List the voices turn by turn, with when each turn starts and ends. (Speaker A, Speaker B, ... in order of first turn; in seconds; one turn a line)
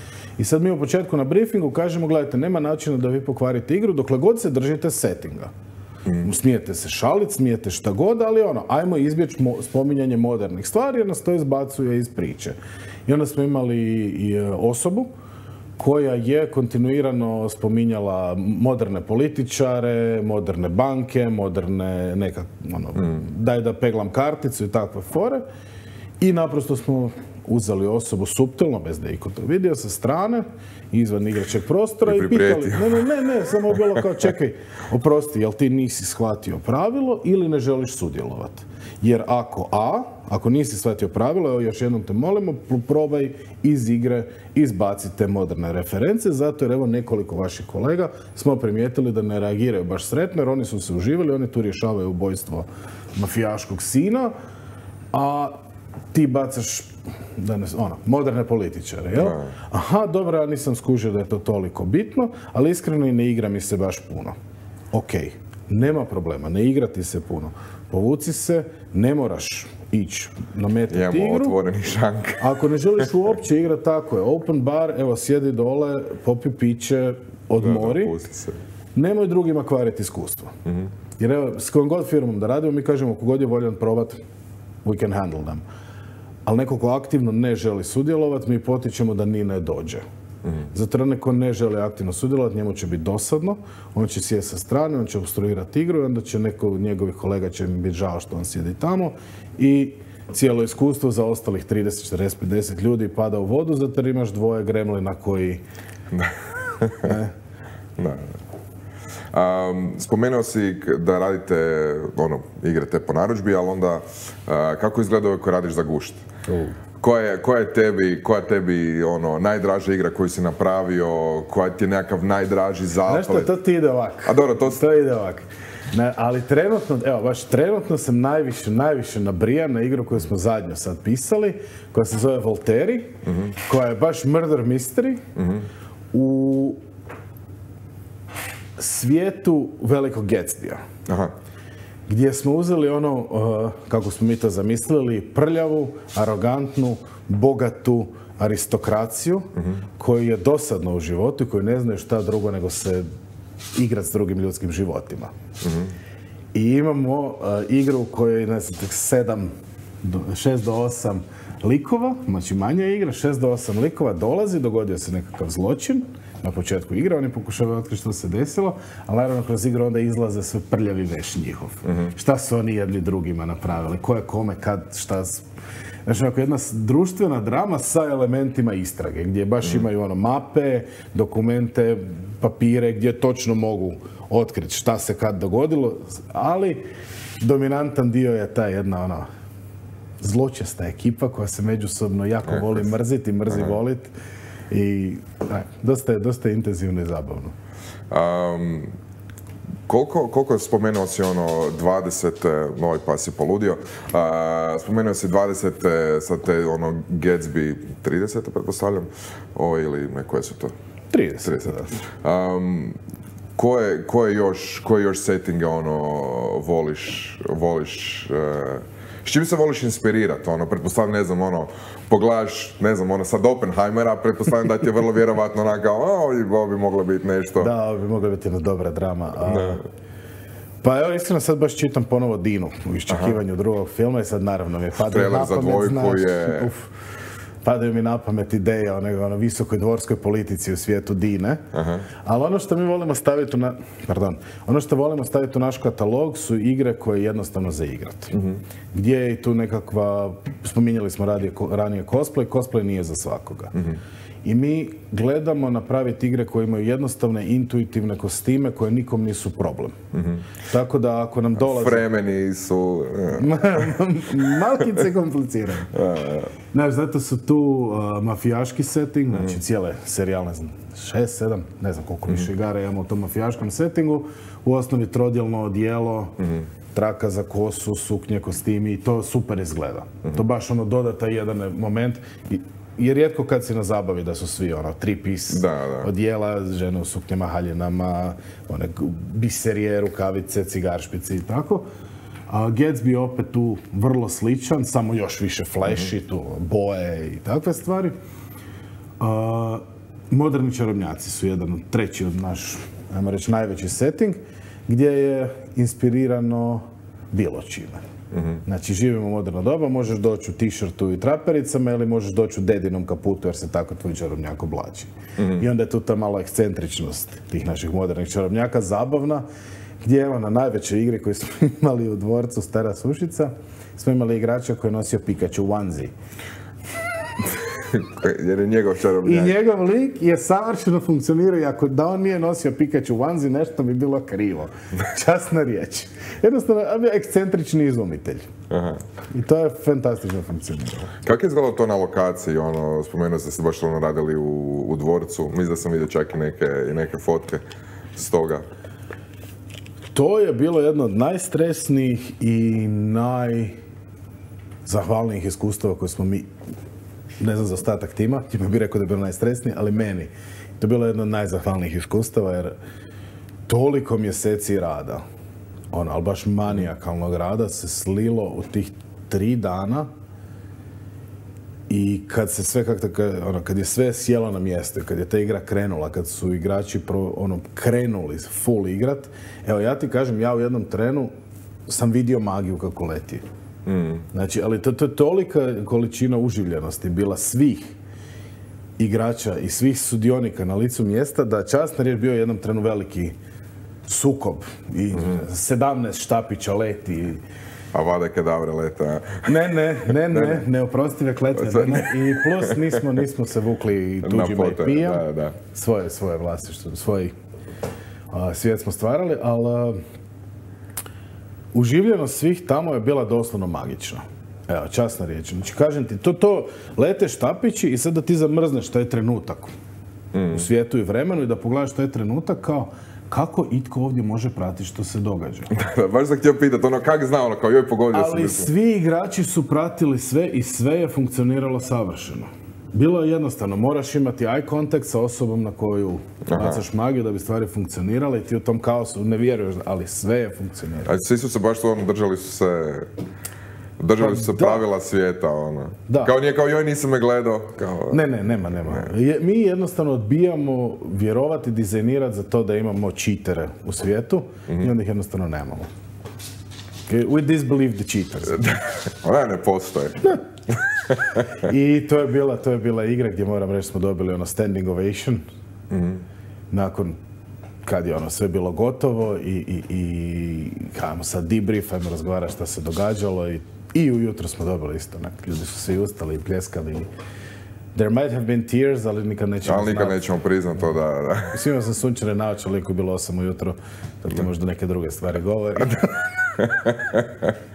Speaker A: 0.4-5.5
Speaker A: 6.2-15.1
Speaker A: 15.8-25.4
Speaker A: 26.2-54.3
Speaker B: 32.0-33.0
Speaker A: 55.1-55.5
Speaker A: 56.1-64.3
Speaker B: 59.2-59.5
Speaker A: 64.9-71.6
Speaker B: 70.9-73.1
Speaker A: 72.4-78.2
Speaker B: 77.6-78.6
Speaker A: 78.9-80.5
Speaker B: 80.6-80.9
Speaker A: 81.2-84.2
Speaker A: 84.8-85.6
Speaker A: 86.4-90.0
Speaker A: 90.7-105.6
Speaker B: 106.1-107.2
Speaker A: 107.0-107.3
Speaker B: 108.0-108.3
Speaker B: 109.3-116.2
Speaker A: 116.5-116.8
Speaker B: 117.0-123.5
Speaker A: 123.0-133.1
Speaker B: 124.2-124.8
Speaker B: 133.2-133.5
Speaker A: 133.7-135.2
Speaker B: 135.3-135.7
Speaker A: 136.1-136.8
Speaker A: 138.8-140.8
Speaker B: 141.1-141.3
Speaker A: 142.1-153.1
Speaker B: 149.6-149.8
Speaker A: 153.7-155.3
Speaker B: 155.6-155.9
Speaker A: 156.5-175.4
Speaker A: 176.1-186.8
Speaker A: 187.4-189.2
Speaker A: 190.2-194.1
Speaker B: 192.5-192.9
Speaker B: 193.5-193.8
Speaker A: 194.7-197.5
Speaker B: 198.1-198.9
Speaker B: 199.9-210.7
Speaker A: 211.1-212.0
Speaker B: 211.4-213.0
Speaker B: 213.6-227.7
Speaker A: 227.6-229.8
Speaker B: 229.4-229.8
Speaker A: 230.8-236.9
Speaker B: 233.1-233.4
Speaker B: 235.0-236.7
Speaker A: 237.6-241.6
Speaker B: 241.7-242.1
Speaker A: 242.2-248.3
Speaker B: 248.3-248.6
Speaker A: 248.9-253.7
Speaker A: 254.4-259.9
Speaker B: 260.1-260.4
Speaker A: 260.7-262.0
Speaker B: 261.6-263.8
Speaker A: 263.3-265.9
Speaker B: 265.9-266.5
Speaker A: 266.7-276.4
Speaker B: 276.4-276.6
Speaker A: 276.9-291.9
Speaker B: 285.5-286.1
Speaker A: 292.5-298.1
Speaker A: 299.2-308.0
Speaker B: 308.3-308.6
Speaker A: 308.6-319.4
Speaker B: 315.4-315.6
Speaker A: 320.0-326.1
Speaker B: 327.9-329.6
Speaker A: 329.2-338.5
Speaker B: 338.7-339.0
Speaker A: 339.3-341.1
Speaker B: 341.2-347.6
Speaker B: 348.1-348.6
Speaker A: 350.1-353.8
Speaker A: 354.8-356.5
Speaker A: 357.4-362.7
Speaker A: 363.7-365.2
Speaker A: 365.9-370.1
Speaker A: 371.9-381.3
Speaker A: 381.9-383.4
Speaker B: 383.9-384.2
Speaker A: 384.3-387.9
Speaker A: 389.0-393.3
Speaker A: 394.0-397.4
Speaker B: 395.1-395.4
Speaker B: 397.9-400.6
Speaker A: 399.4-407.3
Speaker B: 401.6-403.0
Speaker B: 404.2-405.6
Speaker A: 408.3-410.0
Speaker A: 411.7-419.7
Speaker B: 420.3-420.6
Speaker A: 420.5-425.7
Speaker B: 425.7-428.7
Speaker A: 428.1-441.1
Speaker B: 436.4-436.8
Speaker B: 441.1-443.1
Speaker B: 444.0-449.1
Speaker A: 444.2-444.8
Speaker A: 446.1-446.3
Speaker A: 448.1-455.9
Speaker A: 457.1-458.7
Speaker B: 458.6-460.4
Speaker B: 461.1-461.4
Speaker A: 461.6-465.4
Speaker B: 465.9-466.2
Speaker A: 466.7-467.2
Speaker A: 467.8-477.1
Speaker A: 477.9-480.2
Speaker B: 479.6-481.5
Speaker A: 481.5-486.1
Speaker B: 486.6-487.5